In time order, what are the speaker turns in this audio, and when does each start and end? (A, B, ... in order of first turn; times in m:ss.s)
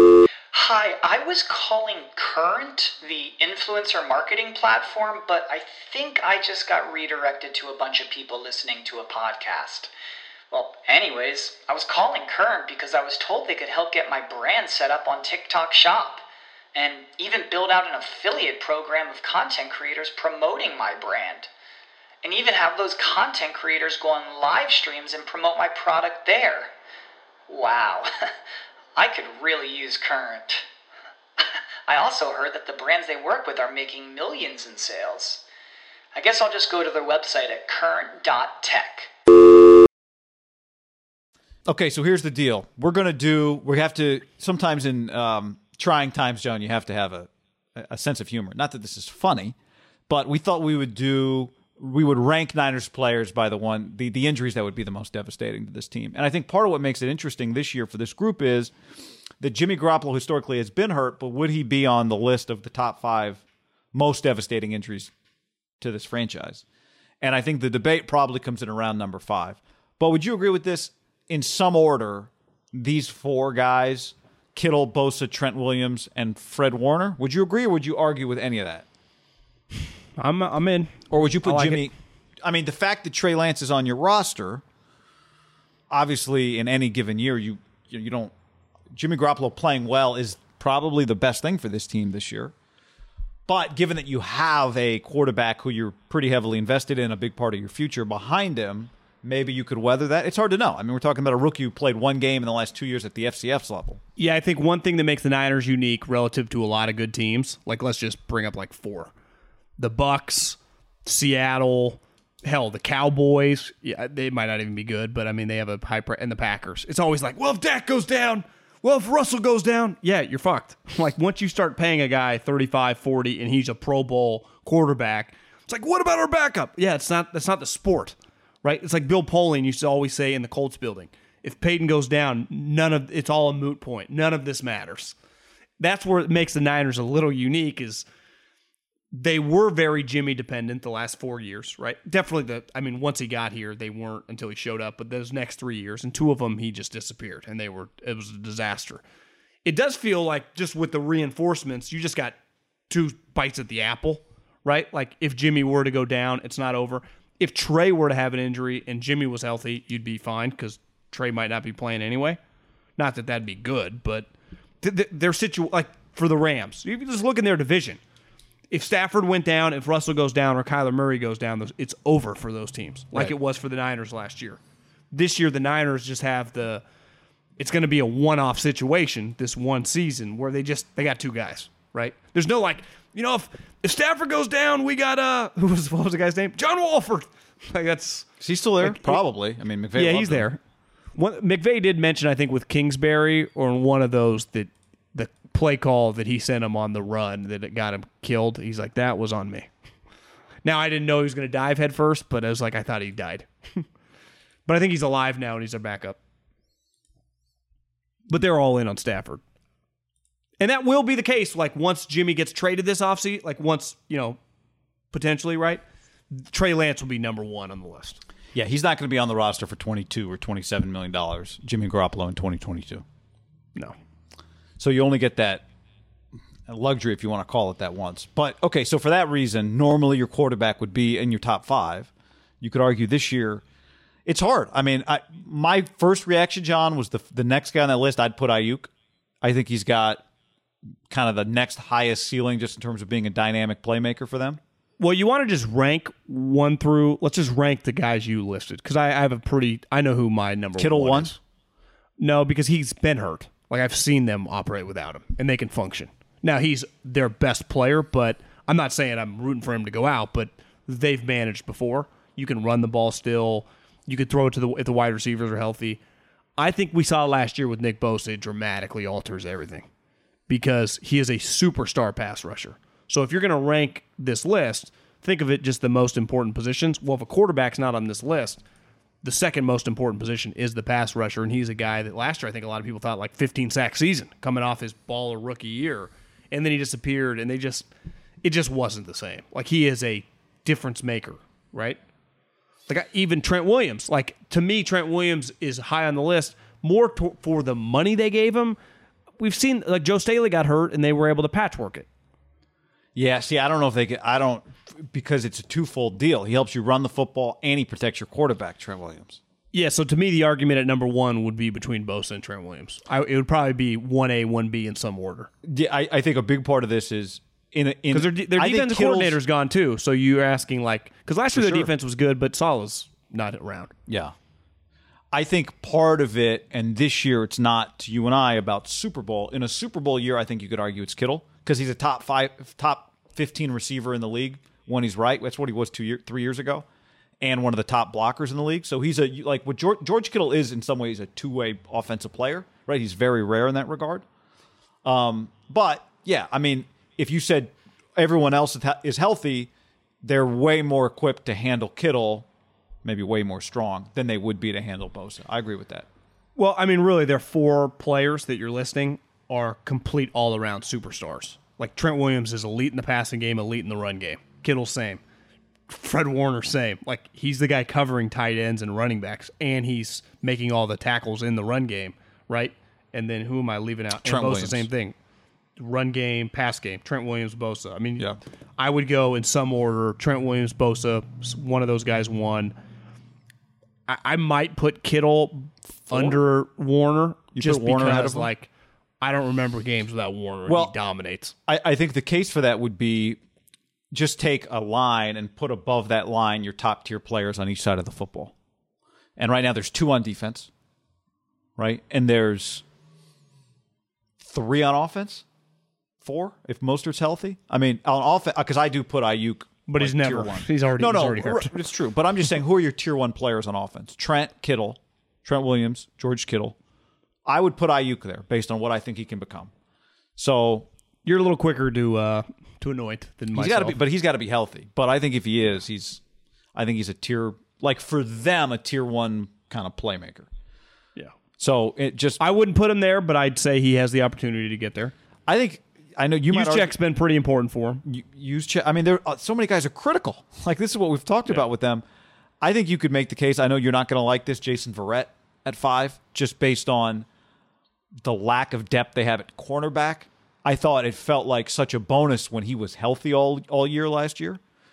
0:00.5-0:09.9 A
0:10.5-0:16.2 A
0:16.8-0:21.5 A
0:22.2-0:26.7 A
0:27.5-0:28.1 A
0:29.0-0:30.7 A
0:31.9-0:35.4 A
0:36.2-0:39.1 A
0:41.7-0:49.6 B
0:50.1-0:58.7 B
0:59.4-1:03.4 B
1:03.9-1:05.1 B
1:05.8-1:06.6 B
1:07.2-1:18.8 B
1:20.2-1:21.8 C
1:21.1-1:24.6 B
1:25.9-1:28.3 B
1:28.9-1:32.5 B
1:33.5-1:44.0 B
1:44.2-1:49.1 C
1:49.8-2:15.2 C
2:15.8-2:18.1 C
2:19.1-2:29.0 C
2:29.6-2:32.4 C
2:32.9-2:42.4 C
2:43.0-2:44.3 C
2:44.8-2:48.0 C
2:48.7-2:54.6 C
2:55.1-2:56.8 C
2:57.6-3:08.3 C
3:08.4-3:10.5 B
3:08.8-3:09.2 C
3:10.0-3:10.6 C
3:11.2-3:19.7 C
3:20.6-3:23.8 C
3:24.7-3:26.2 C
3:28.3-3:29.4 C
3:30.6-3:34.4 C
3:35.1-3:38.2 C
3:38.6-3:43.0 B
3:44.8-3:45.6 B
3:46.7-3:52.1 B
3:52.6-3:53.6 B
3:54.3-3:58.9 B
3:59.4-4:00.2 B
4:01.1-4:04.6 B
4:05.0-4:11.4 C
4:10.8-4:11.3 B
4:12.2-4:26.0 C
4:26.6-4:29.9 C
4:30.5-4:38.6 C
4:39.2-4:47.9 C
4:48.4-4:52.0 C
4:52.9-4:58.8 C
4:59.4-5:02.1 C
5:03.2-5:09.4 B
5:09.7-5:15.5 C
5:15.6-5:19.4 B
5:18.1-5:23.9 C
5:21.5-5:21.9 B
5:24.1-5:24.3 B
5:25.3-5:36.8 B
5:37.4-5:44.2 B
5:45.0-5:49.7 B
5:50.2-5:52.5 B
5:53.0-5:56.1 B
5:56.6-6:05.2 C
6:05.9-6:15.2 C
6:14.2-6:14.9 B
6:15.8-6:18.3 C
6:18.8-6:22.8 C
6:24.1-6:28.7 C
6:26.1-6:26.4 B
6:27.6-6:28.5 B
6:29.2-6:31.5 C
6:30.7-6:30.9 B
6:31.7-6:33.4 B
6:34.1-6:38.5 B
6:39.4-6:40.7 B
6:41.8-6:42.8 B
6:44.4-6:45.4 B
6:46.2-6:56.8 B
6:49.9-6:51.8 C
6:57.5-6:59.7 B
7:00.4-7:00.9 B
7:01.2-7:04.0 C
7:03.5-7:06.2 B
7:06.8-7:10.5 B
7:11.6-7:12.4 B
7:12.4-7:15.2 C
7:15.5-7:16.9 B
7:16.5-7:18.0 C
7:18.0-7:22.0 B
7:22.6-7:27.3 B
7:28.2-7:34.6 B